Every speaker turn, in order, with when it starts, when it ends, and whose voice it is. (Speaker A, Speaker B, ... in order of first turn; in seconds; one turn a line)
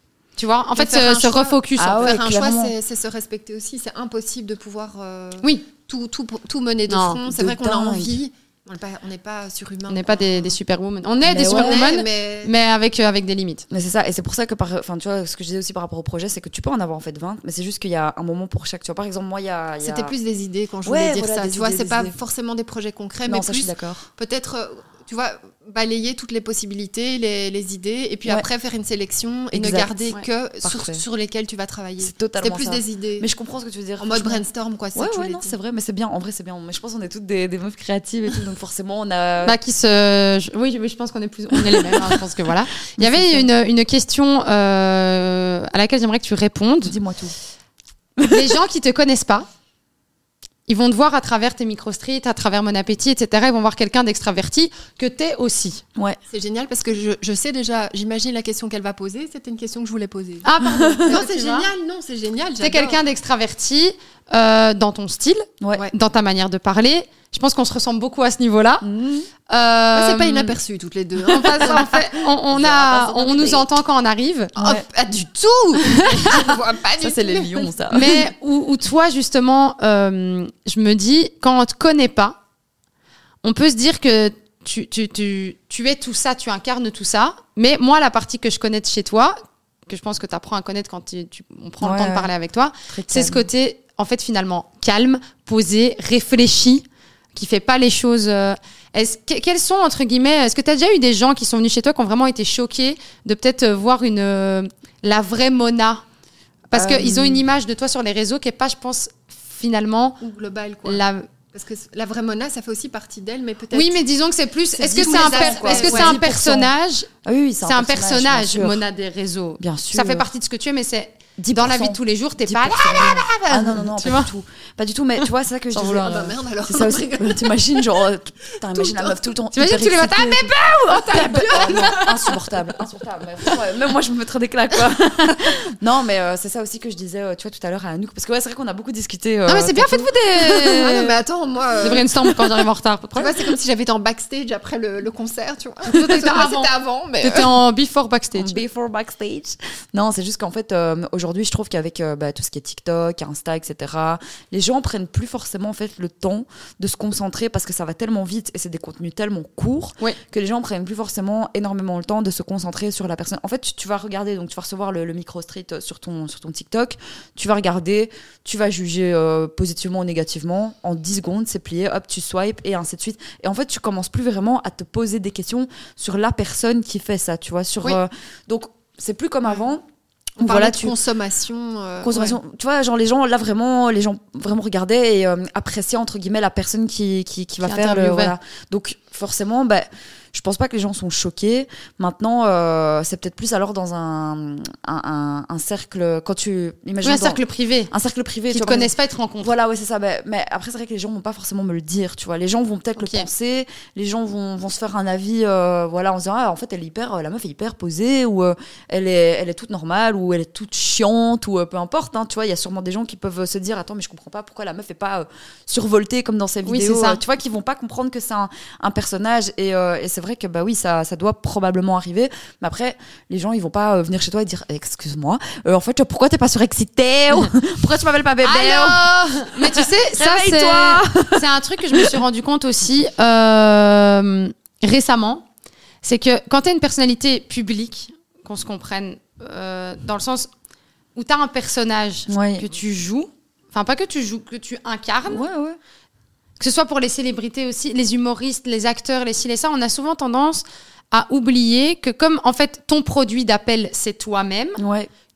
Speaker A: 0.4-2.2
Speaker B: 0.8-10.6
Speaker C: 1.8-2.7
Speaker A: 6.9-7.2
Speaker C: 7.3-8.2
Speaker A: 9.9-13.7
Speaker C: 11.3-11.9
Speaker B: 11.3-12.5
Speaker C: 13.7-20.1
Speaker B: 19.8-33.3
Speaker C: 20.9-22.1
Speaker C: 23.3-24.1
Speaker C: 29.5-30.0
Speaker C: 30.6-31.0
Speaker C: 32.0-39.6
Speaker B: 34.0-35.5
Speaker A: 39.4-47.0
Speaker C: 41.5-42.2
Speaker C: 43.0-43.5
Speaker C: 46.9-47.4
Speaker C: 48.2-48.5
Speaker A: 48.3-49.5
Speaker A: 50.7-55.8
Speaker B: 56.3-63.0
Speaker A: 60.4-61.7
Speaker A: 62.6-68.9
Speaker C: 65.6-65.9
Speaker C: 68.8-69.3
Speaker A: 69.5-70.5
Speaker B: 69.9-71.9
Speaker A: 71.3-74.5
Speaker C: 71.6-73.7
Speaker B: 74.6-78.2
Speaker C: 74.6-74.8
Speaker A: 75.9-76.2
Speaker C: 77.0-78.1
Speaker A: 77.9-82.4
Speaker A: 83.4-106.0
Speaker C: 91.8-92.3
Speaker C: 92.9-93.5
Speaker A: 106.7-110.2
Speaker C: 106.7-107.4
Speaker B: 110.2-114.0
Speaker A: 110.8-111.3
Speaker A: 113.7-117.1
Speaker B: 114.7-116.2
Speaker C: 115.0-116.7
Speaker C: 117.2-118.8
Speaker A: 117.6-123.2
Speaker C: 119.6-120.3
Speaker C: 121.4-130.5
Speaker B: 122.9-124.1
Speaker A: 124.0-124.3
Speaker B: 125.7-128.1
Speaker B: 128.6-129.3
Speaker A: 129.5-132.4
Speaker B: 130.9-132.4
Speaker C: 131.4-140.1
Speaker A: 139.4-141.2
Speaker B: 140.5-142.5
Speaker A: 141.8-143.5
Speaker B: 143.2-147.6
Speaker A: 145.8-148.6
Speaker C: 148.3-179.9
Speaker B: 180.4-182.4
Speaker C: 180.4-180.9
Speaker C: 182.0-232.2
Speaker A: 187.6-188.3
Speaker A: 197.0-197.9
Speaker A: 198.5-199.5
Speaker A: 202.9-203.3
Speaker A: 216.6-217.2
Speaker A: 228.4-235.4
Speaker A: 236.0-240.5
Speaker A: 241.1-245.4
Speaker C: 242.3-242.7
Speaker C: 245.3-245.8
Speaker A: 246.6-254.8
Speaker C: 254.8-255.1